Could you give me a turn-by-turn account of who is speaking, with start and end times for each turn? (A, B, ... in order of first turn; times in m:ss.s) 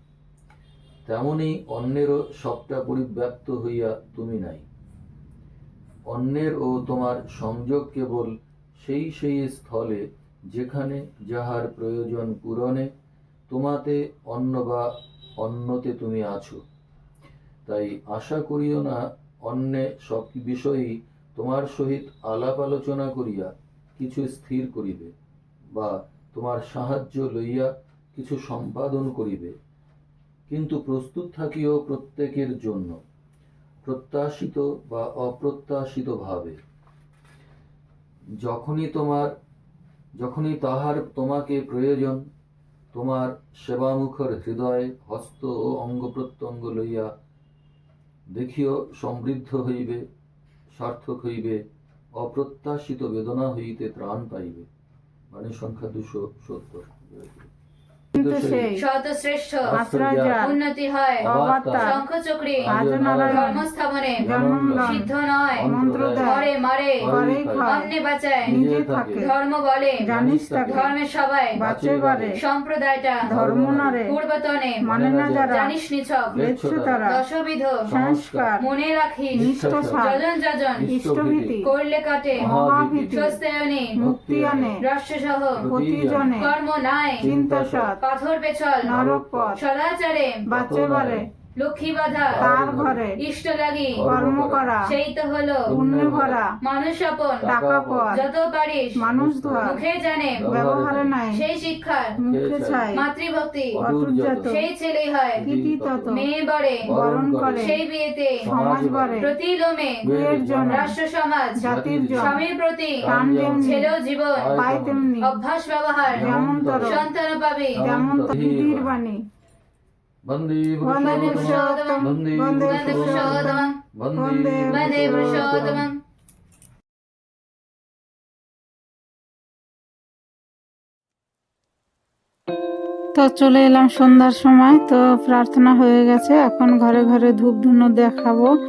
0:01.1-0:04.6 A
0:06.1-0:12.9 A
0:13.5-0:16.6 A
0:17.7-0:25.1 A
0:25.8-0:29.5 A
0:30.5-0:33.0 A
0:33.8-0:36.6 A
0:38.4-0:39.3 A
0:40.2-0:42.2 A
0:42.9-0:47.1 A
0:48.3-0:50.0 A
0:50.7-0:51.6 A
0:52.2-0:54.7 A
0:55.3-0:57.5 A
0:58.1-0:58.7 A
0:58.1-0:58.8 B
0:58.8-0:59.8 C
0:59.6-1:00.4 A
0:59.7-1:00.6 B
1:00.4-1:02.7 C
1:01.2-1:01.9 A
1:01.2-1:02.0 B
1:02.6-1:03.6 A
1:02.7-1:03.6 B
1:03.3-1:08.6 C
1:04.2-1:05.1 B
1:04.2-1:06.4 A
1:05.7-1:06.5 B
1:07.0-1:07.7 A
1:07.0-1:07.9 B
1:08.4-1:09.2 A
1:08.5-1:09.3 B
1:09.2-1:10.0 C
1:10.0-1:10.9 B
1:10.1-1:10.9 A
1:10.7-1:11.6 C
1:11.6-1:12.4 A
1:11.6-1:12.4 B
1:12.4-1:13.3 C
1:13.2-1:14.0 A
1:13.3-1:14.2 B
1:14.0-1:14.8 C
1:14.8-1:15.7 B
1:14.8-1:15.6 A
1:15.5-1:16.3 C
1:16.3-1:17.0 A
1:16.3-1:17.2 B
1:17.1-1:17.8 C
1:17.8-1:18.5 A
1:17.9-1:18.7 B
1:18.6-1:20.9 C
1:19.3-1:20.1 A
1:19.4-1:20.2 B
1:20.8-1:21.6 A
1:20.9-1:21.7 B
1:21.6-1:22.5 C
1:22.4-1:23.2 A
1:22.4-1:23.4 B
1:23.1-1:24.0 C
1:24.0-1:24.8 A
1:24.0-1:24.8 B
1:24.8-1:25.7 C
1:25.6-1:26.4 A
1:25.7-1:26.5 B
1:26.3-1:27.3 C
1:27.2-1:28.0 A
1:27.2-1:28.0 B
1:28.0-1:28.9 C
1:28.8-1:29.6 A
1:28.9-1:29.6 B
1:29.6-1:30.4 C
1:30.5-1:31.2 B
1:30.5-1:31.2 A
1:31.6-1:32.5 C
1:32.3-1:33.0 A
1:32.4-1:33.2 B
1:33.2-1:34.0 C
1:33.9-1:34.8 A
1:34.0-1:34.9 B
1:34.8-1:35.8 C
1:35.6-1:36.4 A
1:35.7-1:36.5 B
1:36.6-1:37.5 C
1:37.4-1:38.2 A
1:37.4-1:38.2 B
1:38.1-1:39.0 C
1:39.0-1:39.8 A
1:39.0-1:39.8 B
1:39.6-1:40.5 C
1:40.4-1:41.2 A
1:40.5-1:41.4 B
1:41.3-1:42.2 C
1:42.2-1:43.0 A
1:42.2-1:43.0 B
1:42.9-1:43.8 C
1:43.8-1:44.6 A
1:43.8-1:44.6 B
1:44.5-1:45.4 C
1:45.4-1:46.2 A
1:45.4-1:46.2 B
1:46.1-1:46.9 C
1:46.8-1:47.7 A
1:46.9-1:47.7 B
1:47.6-1:48.4 C
1:48.4-1:49.2 A
1:48.4-1:49.3 B
1:49.2-1:50.0 C
1:50.0-1:50.9 A
1:50.1-1:50.9 B
1:50.6-1:51.6 C
1:51.6-1:52.4 A
1:51.6-1:52.4 B
1:52.2-1:53.1 C
1:53.0-1:53.8 A
1:53.0-1:53.9 B
1:53.6-1:54.6 C
1:54.4-1:55.1 A
1:54.5-1:55.3 B
1:55.2-1:57.8 C
1:56.1-1:57.1 A
1:56.2-1:57.0 B
1:57.8-1:59.0 A
1:57.8-1:59.2 B
2:00.3-2:05.9 A
2:00.8-2:05.9 B
2:01.0-2:03.8 C
2:04.7-2:06.0 C
2:13.2-2:18.5 B